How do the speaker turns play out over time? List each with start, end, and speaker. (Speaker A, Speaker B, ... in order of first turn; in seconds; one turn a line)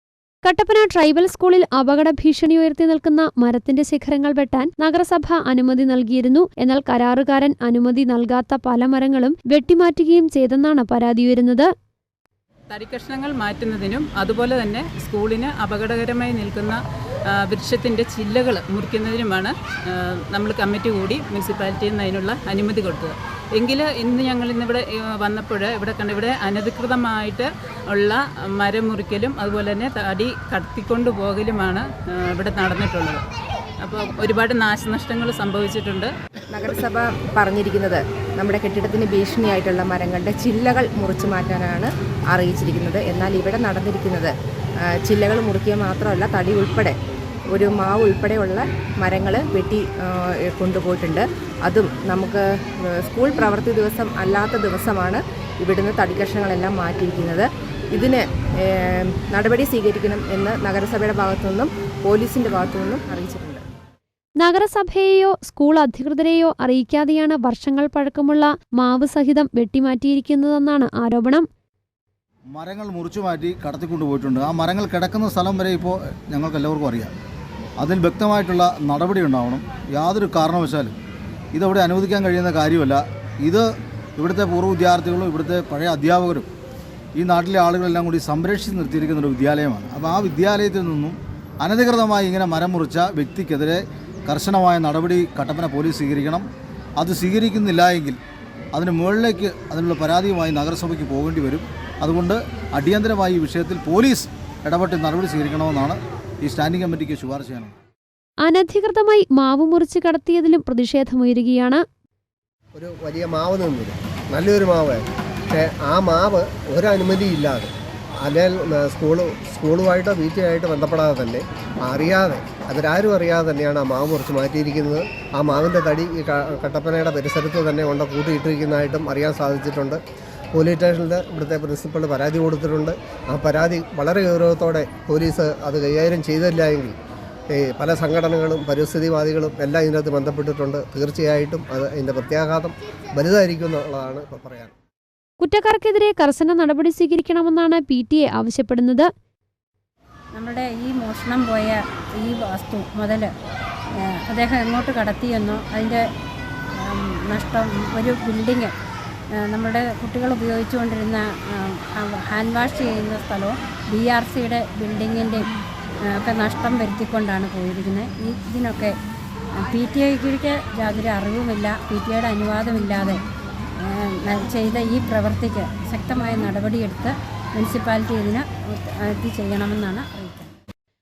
Speaker A: 0.4-11.7
Speaker B: 12.7-16.8
Speaker B: 17.4-33.2
Speaker B: 33.8-36.1
Speaker C: 36.5-44.3
Speaker C: 45.1-47.0
Speaker C: 47.5-58.2
Speaker C: 59.1-63.6
Speaker A: 64.4-71.5
Speaker D: 72.5-77.1
Speaker D: 77.8-80.9
Speaker D: 81.5-83.7
Speaker D: 84.2-86.5
Speaker D: 87.2-96.5
Speaker D: 97.0-98.2
Speaker D: 98.8-107.8
Speaker A: 108.4-111.8
Speaker E: 112.7-117.7
Speaker E: 118.2-130.0
Speaker E: 130.5-136.9
Speaker E: 137.6-144.7
Speaker A: 145.4-149.1
Speaker F: 150.4-153.3
Speaker F: 154.3-156.0
Speaker F: 156.8-158.7
Speaker F: 159.4-165.5
Speaker F: 166.1-168.9
Speaker F: 169.6-173.2
Speaker F: 173.8-178.5
Speaker F: 179.0-180.5